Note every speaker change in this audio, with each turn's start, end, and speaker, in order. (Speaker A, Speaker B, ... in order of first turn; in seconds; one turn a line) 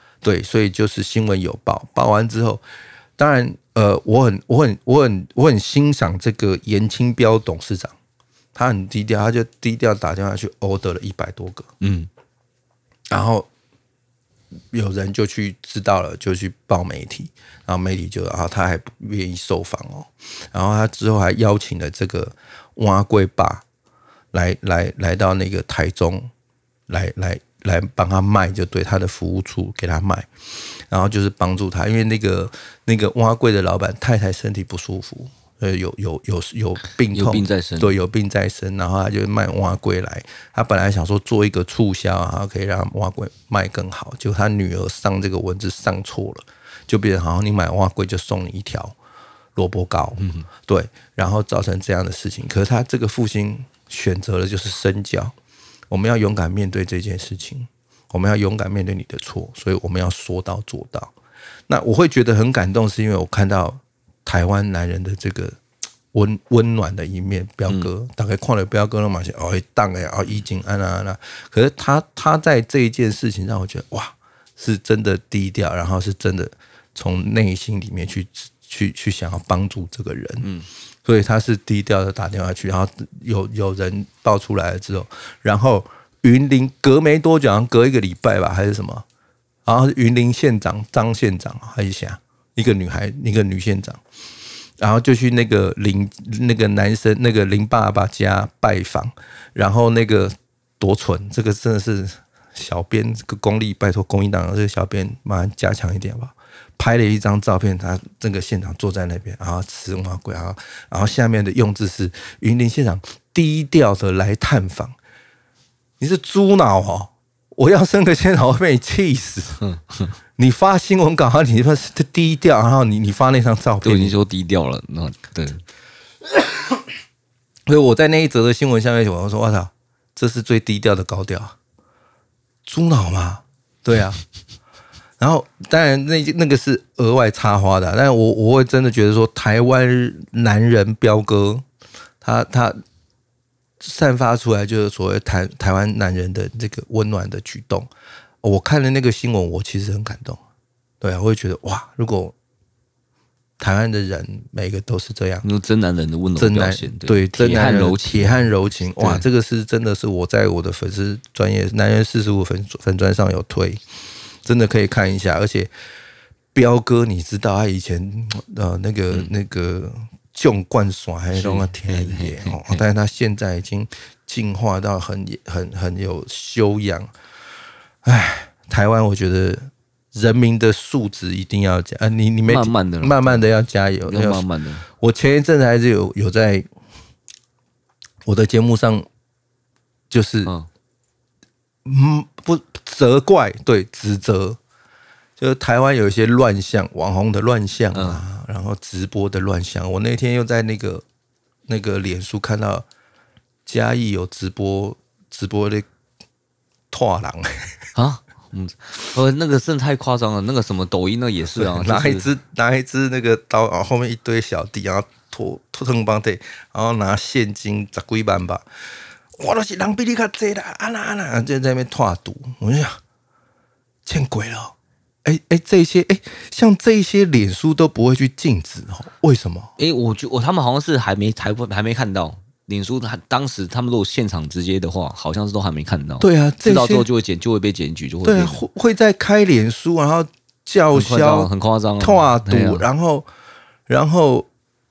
Speaker A: 0.2-2.6
Speaker A: 3.2-7.9
Speaker A: 8.5-11.7
Speaker B: 11.8-12.1
Speaker A: 13.1-13.5
Speaker A: 14.7-23.6
Speaker A: 24.3-26.3
Speaker A: 26.9-30.3
Speaker A: 30.9-48.9
Speaker B: 37.1-37.9
Speaker A: 49.5-55.3
Speaker B: 50.2-50.5
Speaker A: 55.9-61.1
Speaker A: 61.7-65.6
Speaker A: 66.1-80.5
Speaker B: 80.4-80.7
Speaker A: 81.0-89.0
Speaker A: 89.7-94.0
Speaker A: 94.8-114.9
Speaker A: 116.0-119.6
Speaker B: 119.6-120.1
Speaker A: 120.4-124.1
Speaker B: 123.8-125.6
Speaker A: 126.4-126.8
Speaker A: 127.7-131.5
Speaker A: 132.7-134.2
Speaker A: 135.2-141.6
Speaker A: 142.2-142.8
Speaker A: 143.8-147.9
Speaker A: 148.4-150.4
Speaker A: 151.0-152.3
Speaker A: 153.6-155.4
Speaker B: 155.4-158.4
Speaker A: 156.4-163.8
Speaker B: 159.0-159.2
Speaker A: 164.4-165.7
Speaker A: 166.5-177.1
Speaker B: 171.3-172.8
Speaker A: 178.0-184.4
Speaker B: 182.5-183.4
Speaker B: 184.0-184.8
Speaker A: 185.0-186.7
Speaker A: 188.2-189.1
Speaker A: 190.1-190.5
Speaker A: 191.8-194.6
Speaker A: 195.4-201.0
Speaker B: 197.9-198.2
Speaker A: 201.7-202.8
Speaker A: 203.7-205.9
Speaker A: 206.9-207.7
Speaker B: 207.9-212.3
Speaker A: 211.5-218.7
Speaker A: 219.3-223.0
Speaker A: 224.0-229.7
Speaker B: 229.8-238.6
Speaker A: 236.2-237.1
Speaker A: 238.2-243.3
Speaker B: 240.9-242.8
Speaker A: 243.9-244.5